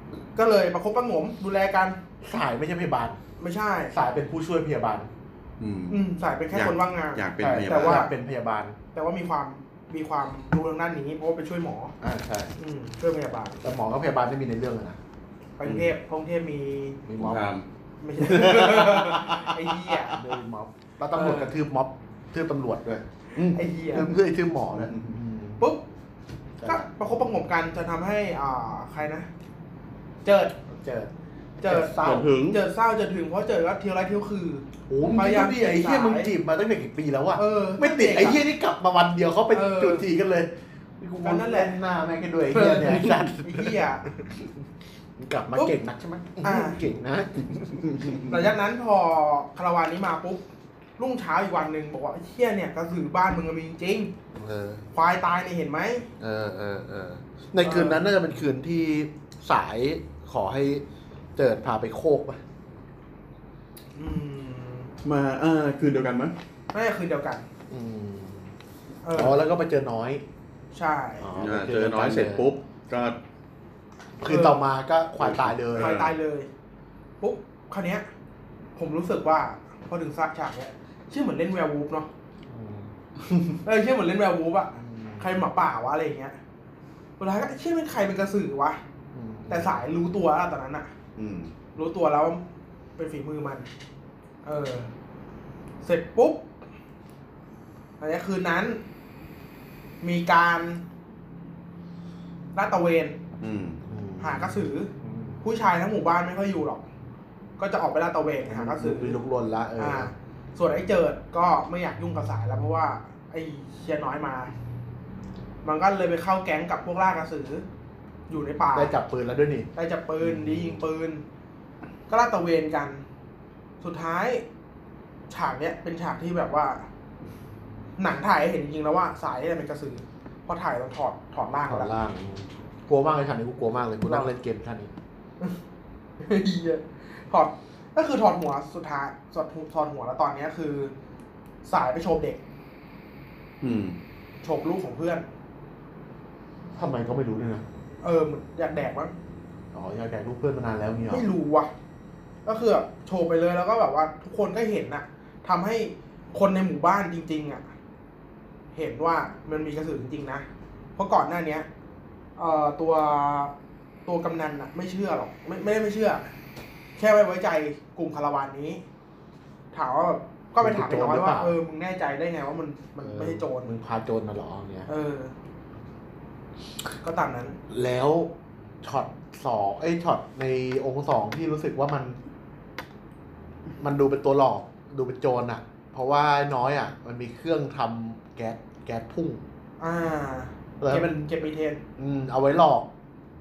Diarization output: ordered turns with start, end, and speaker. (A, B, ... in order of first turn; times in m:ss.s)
0:00.4-0:02.0 A
0:02.2-0:03.2 B
0:03.4-0:03.9 A
0:03.9-0:05.1 B
0:05.6-0:08.1 C
0:05.9-0:08.1 A
0:07.4-0:08.8 B
0:08.9-0:11.9 A
0:12.0-0:12.6 B
0:12.6-0:13.6 A
0:13.6-0:15.0 B
0:15.6-0:17.0 A
0:15.6-0:15.9 C
0:17.1-0:17.5 B
0:17.2-0:17.6 C
0:18.0-0:20.2 A
0:18.2-0:19.5 C
0:20.1-0:23.0 B
0:21.1-0:21.5 A
0:23.4-0:24.1 A
0:23.9-0:25.7 B
0:24.7-0:25.1 C
0:26.6-0:27.1 B
0:26.6-0:29.3 A
0:30.2-0:30.5 A
0:30.7-0:31.1 B
0:31.6-0:36.3 A
0:31.6-0:32.3 B
0:32.0-0:32.6 C
0:34.9-0:44.4 B
0:37.4-0:38.4 A
0:39.5-0:40.1 A
0:41.2-0:41.8 A
0:42.5-0:44.1 A
0:45.2-0:48.4 B
0:46.4-0:46.8 A
0:48.3-0:50.4 A
0:51.0-0:54.1 A
0:54.4-0:54.8 B
0:54.9-0:56.1 A
0:56.2-1:00.8 B
0:57.6-0:58.0 A
1:01.4-1:02.4 B
1:04.0-1:04.9 A
1:05.0-1:06.4 C
1:06.7-1:07.5 A
1:07.7-1:08.5 B
1:09.0-1:09.4 A
1:09.1-1:10.2 B
1:10.7-1:11.3 A
1:11.2-1:12.5 B
1:11.4-1:13.2 C
1:14.2-1:16.0 B
1:14.2-1:14.7 A
1:15.2-1:16.1 C
1:15.8-1:16.5 A
1:17.2-1:18.1 A
1:18.8-1:22.1 A
1:22.5-1:23.3 B
1:23.6-1:26.4 A
1:24.8-1:25.4 B
1:27.2-1:28.8 A
1:29.1-1:29.8 B
1:29.5-1:30.9 A
1:31.2-1:31.5 C
1:31.8-1:32.4 A
1:33.0-1:33.7 A
1:34.4-1:34.9 A
1:35.8-1:36.5 A
1:38.0-1:38.8 A
1:40.0-1:40.8 A
1:42.6-1:43.2 A
1:43.4-1:43.8 C
1:43.8-1:45.4 B
1:44.2-1:44.9 A
1:45.4-1:46.9 A
1:47.6-1:49.2 A
1:48.5-1:50.1 B
1:49.8-1:54.5 A
1:55.6-1:57.6 A
1:58.3-1:59.0 A
1:58.8-1:59.7 B
1:59.8-2:01.2 A
2:00.2-2:00.8 B
2:02.1-2:03.0 A
2:03.8-2:04.4 A
2:05.3-2:06.9 A
2:08.0-2:11.9 A
2:11.7-2:14.9 B
2:16.2-2:20.9 A
2:21.6-2:22.4 A
2:23.6-2:24.0 C
2:24.4-2:25.2 A
2:26.8-2:27.6 B
2:28.0-2:29.1 A
2:29.7-2:31.3 B
2:31.1-2:31.7 A
2:32.4-2:37.6 A
2:38.7-2:41.7 A
2:42.4-2:43.5 A
2:44.1-2:46.3 A
2:47.0-2:48.8 A
2:49.7-2:53.8 A
2:50.6-2:51.6 B
2:53.0-2:54.9 B
2:54.9-2:55.3 A
2:57.0-2:57.6 A
2:57.7-3:02.2 B
3:03.8-3:09.4 B
3:09.8-3:11.8 A
3:10.8-3:11.4 B
3:12.0-3:12.9 B